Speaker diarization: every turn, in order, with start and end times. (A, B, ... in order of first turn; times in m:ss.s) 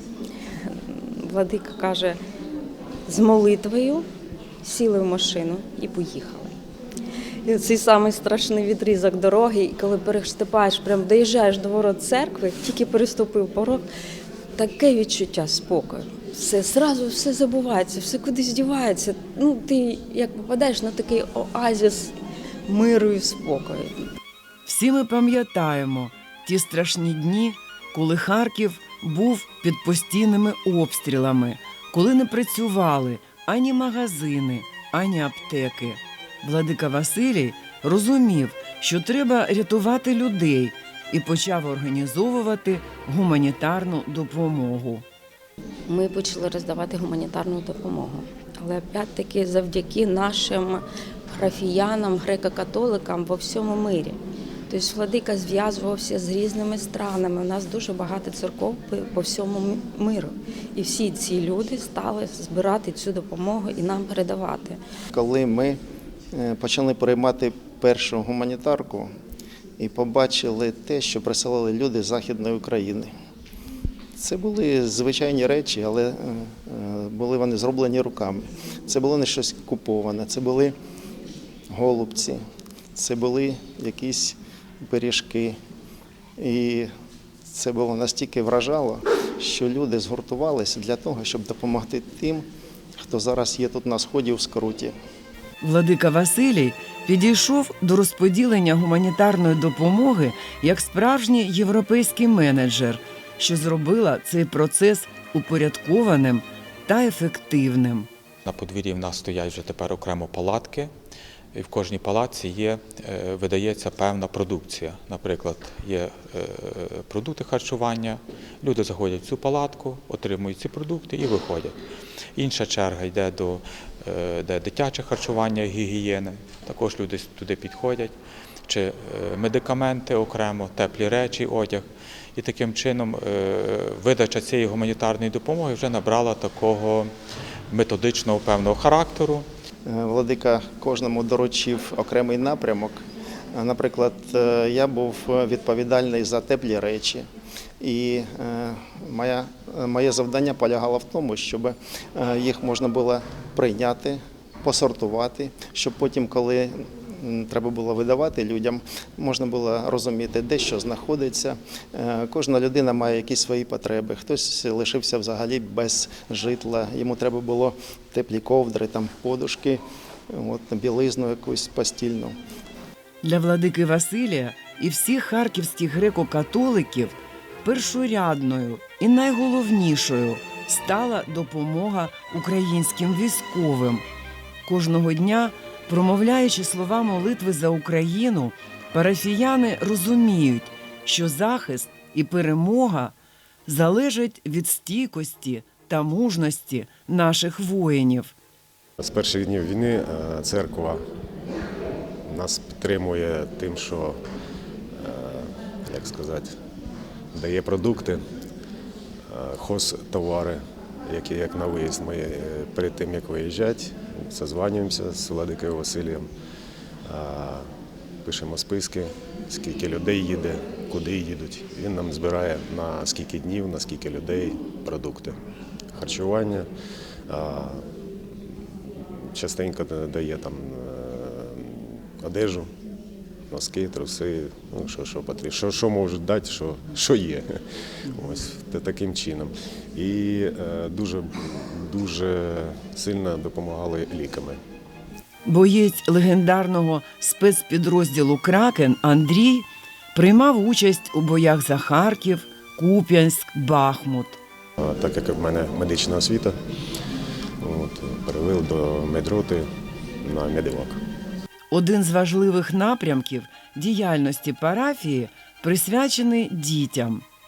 0:00.6-0:02.2 A
0:03.1-0:04.0 A
0:04.6-0:06.5 A
0:07.4-0:13.8 A
0:14.6-0:22.1 A
0:22.7-0:23.9 A
0:24.6-0:45.0 B
0:45.9-0:54.2 A
0:54.7-1:04.8 A
1:05.1-1:05.8 C
1:06.3-1:09.1 C
1:09.8-1:13.1 C
1:14.2-1:20.7 C
1:21.7-1:22.4 C
1:22.9-1:25.6 C
1:26.4-1:26.9 C
1:27.5-1:34.9 C
1:35.6-1:48.1 B
1:48.4-1:50.9 D
1:51.5-2:01.8 D
2:02.4-2:08.1 D
2:08.7-2:17.1 D
2:17.7-2:19.4 D
2:19.8-2:23.0 C
2:23.5-2:27.3 C
2:27.8-2:52.3 C
2:53.2-3:04.0 B
3:04.6-3:13.1 B
3:13.6-3:18.3 B
3:19.0-3:21.0 E
3:22.2-3:24.2 E
3:24.9-3:26.5 E
3:27.3-3:28.2 E
3:29.3-3:36.3 E
3:37.0-3:37.7 E
3:38.2-3:45.4 E
3:45.9-3:46.7 E
3:47.3-3:47.8 E
3:48.9-3:52.7 E
3:53.5-3:57.5 E
3:58.1-4:04.6 E
4:05.4-4:14.4 B
4:14.8-4:16.6 E
4:17.6-4:19.7 E
4:20.2-4:21.0 E
4:21.7-4:27.2 B